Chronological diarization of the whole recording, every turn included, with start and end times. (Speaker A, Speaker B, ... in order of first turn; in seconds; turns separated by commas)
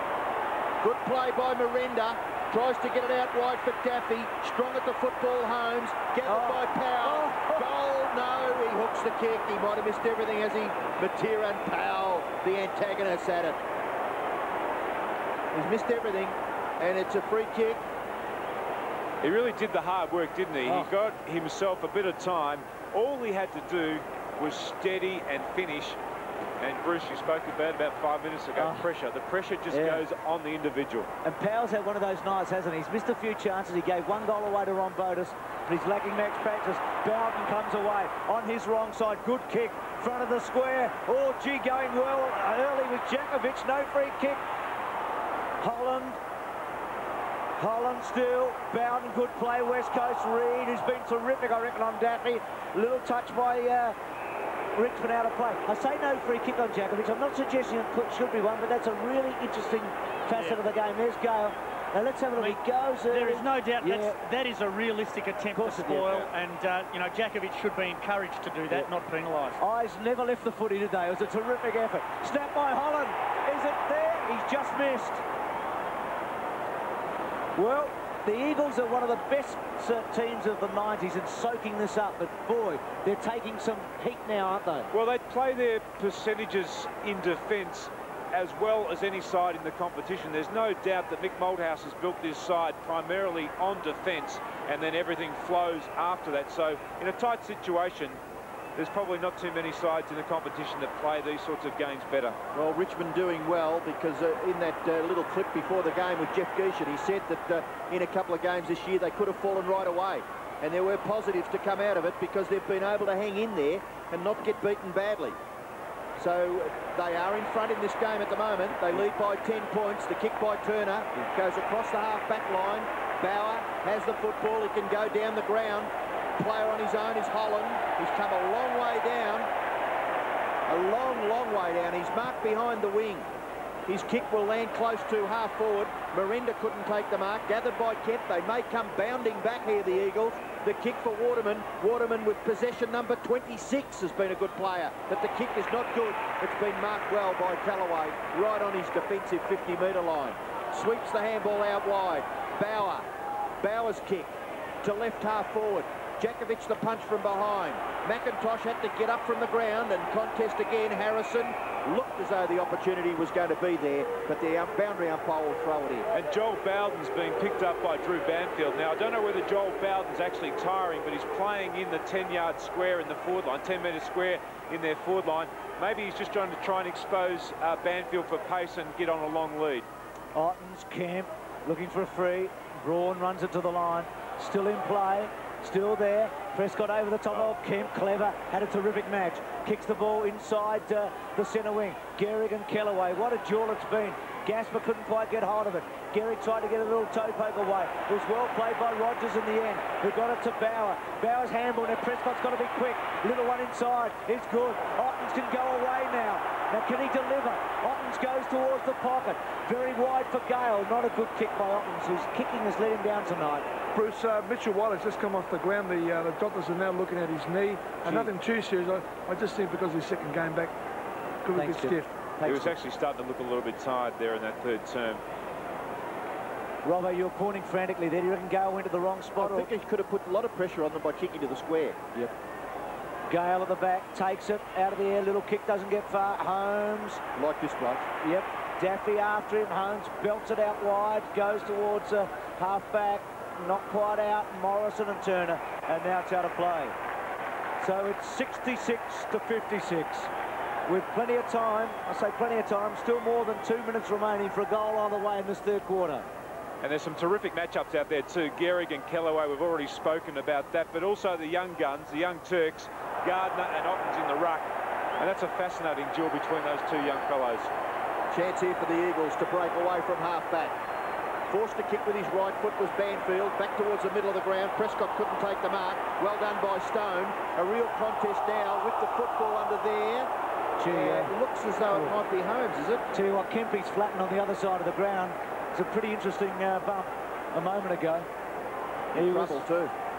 Speaker A: 0.8-13.6, Speaker B: 6.2-7.6, Speaker A: 15.5-17.8, Speaker C: 19.2-26.0, Speaker B: 20.6-20.9, Speaker C: 26.6-31.1, Speaker B: 28.6-28.8, Speaker B: 29.7-30.0, Speaker B: 31.2-44.4, Speaker B: 45.6-46.2, Speaker B: 47.6-53.9, Speaker B: 54.7-64.2, Speaker D: 60.3-60.6, Speaker D: 63.1-69.6, Speaker B: 65.5-66.3, Speaker B: 69.6-75.2, Speaker B: 77.5-84.9, Speaker C: 84.9-98.2, Speaker C: 98.8-102.4, Speaker A: 102.5-115.4, Speaker A: 116.2-129.5, Speaker A: 130.7-133.3, Speaker A: 133.9-153.1, Speaker A: 153.6-166.1, Speaker C: 166.1-179.9, Speaker B: 180.3-213.7, Speaker E: 213.9-220.7, Speaker E: 221.4-222.1, Speaker B: 221.5-222.8, Speaker C: 222.4-225.2, Speaker B: 226.8-229.7, Speaker A: 229.4-232.0, Speaker B: 233.3-237.2, Speaker A: 237.3-238.1, Speaker B: 238.2-246.9, Speaker B: 247.8-250.3, Speaker B: 250.9-256.2, Speaker C: 256.8-267.7, Speaker A: 268.3-270.8, Speaker A: 271.5-280.3, Speaker B: 280.8-281.3, Speaker A: 280.9-283.1, Speaker B: 283.1-288.3, Speaker A: 289.1-289.9, Speaker B: 289.1-289.6